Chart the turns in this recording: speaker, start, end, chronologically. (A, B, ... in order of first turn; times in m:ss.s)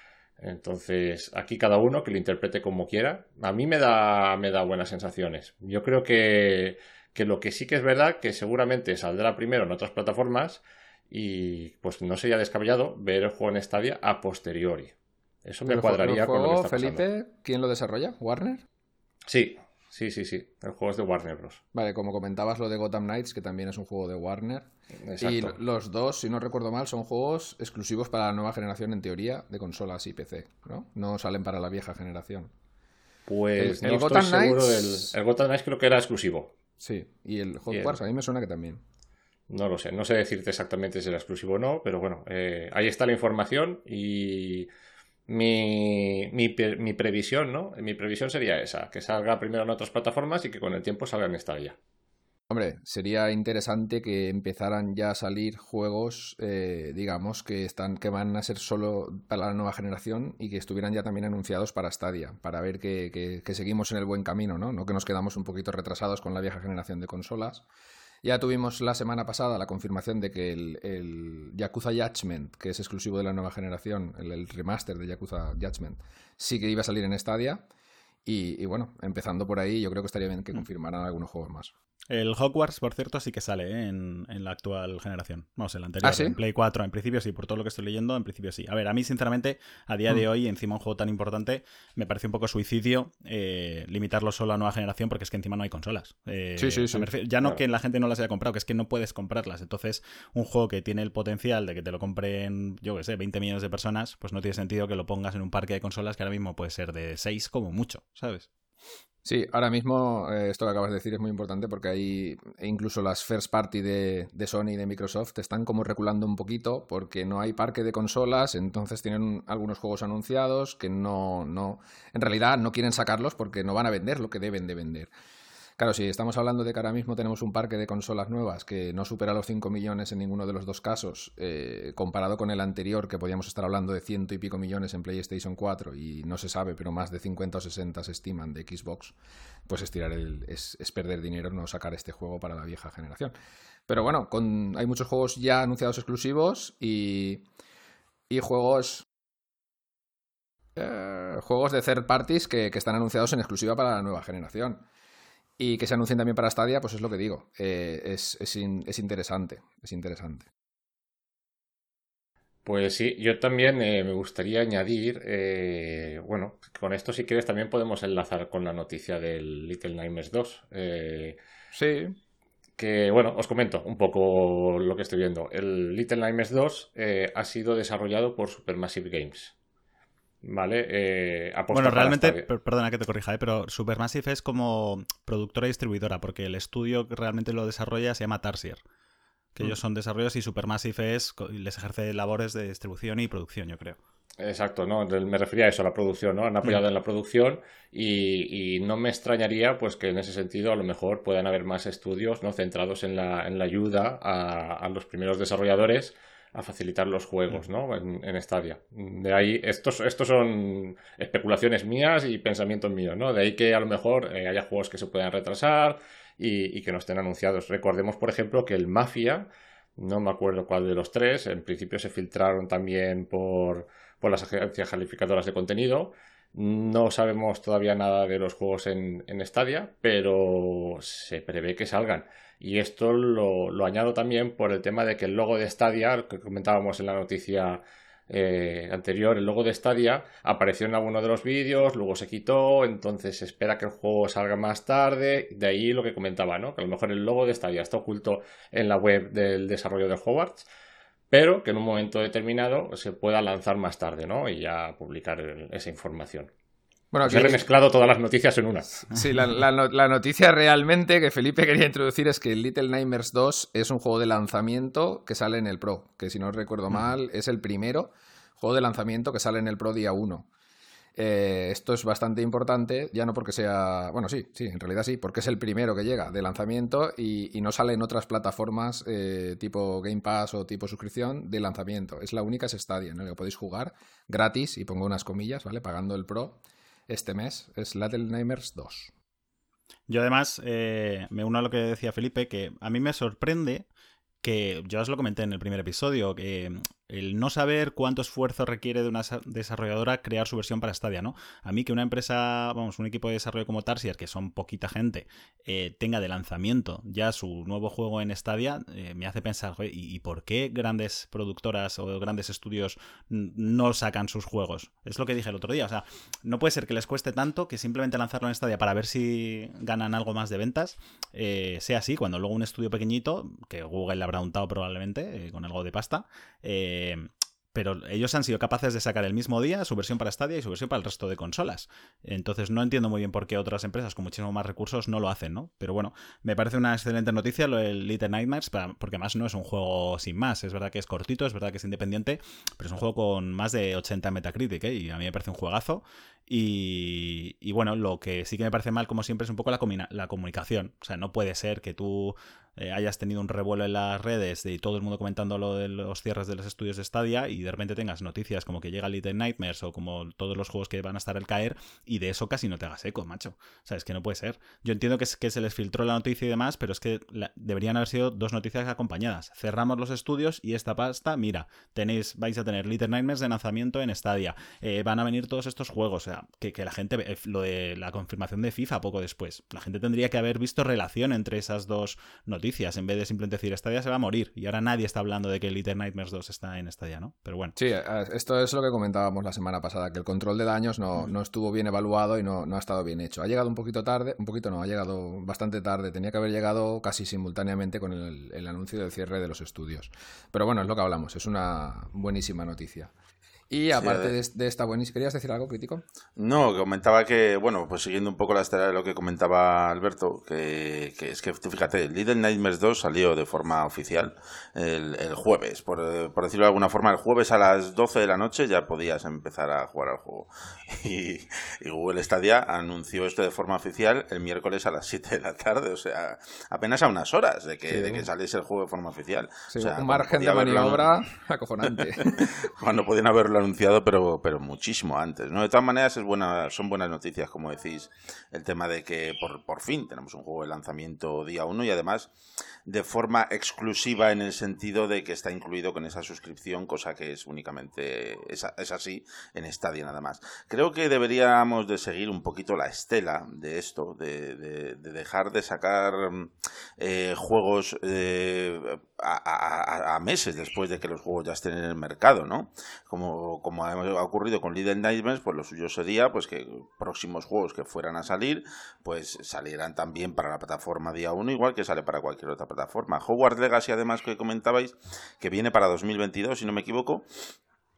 0:00.4-0:14.9 A
0:15.4-0:17.0 A
0:15.6-0:18.6 B
0:19.3-0:21.6 A
0:21.7-0:24.7 B
0:25.1-0:25.6 A
0:25.2-0:32.5 B
0:33.3-0:36.5 A
0:33.6-0:35.1 B
0:36.8-0:38.8 B
0:37.7-0:38.0 A
0:39.5-0:44.7 A
0:45.3-0:51.8 A
0:52.5-1:07.6 B
1:08.2-1:17.6 B
1:18.2-1:21.7 B
1:22.1-1:48.5 C
1:26.0-1:26.4 B
1:36.6-1:37.5 B
1:49.2-2:05.1 B
2:05.8-2:19.1 B
2:19.7-2:23.3 B
2:23.9-2:27.4 B
2:28.3-2:29.0 B
2:30.8-2:34.8 B
2:35.6-2:40.5 B
2:42.6-2:51.4 A
2:51.7-2:52.2 B
2:52.8-2:59.5 A
3:00.4-3:02.4 A
3:01.7-3:08.8 C
3:09.6-3:14.0 C
3:14.4-4:10.7 A
4:11.3-4:16.5 A
4:17.1-4:17.6 B
4:17.2-4:19.1 A
4:19.1-4:30.5 B
4:31.2-4:49.1 B
4:50.1-4:53.8 C
4:54.4-6:27.7 C
6:27.8-6:43.1 B
6:43.7-6:46.0 B
6:44.0-6:44.3 D
6:46.4-7:11.1 D
7:07.9-7:08.3 B
7:09.7-7:12.5 B
7:11.8-7:22.3 D
7:22.8-7:57.2 D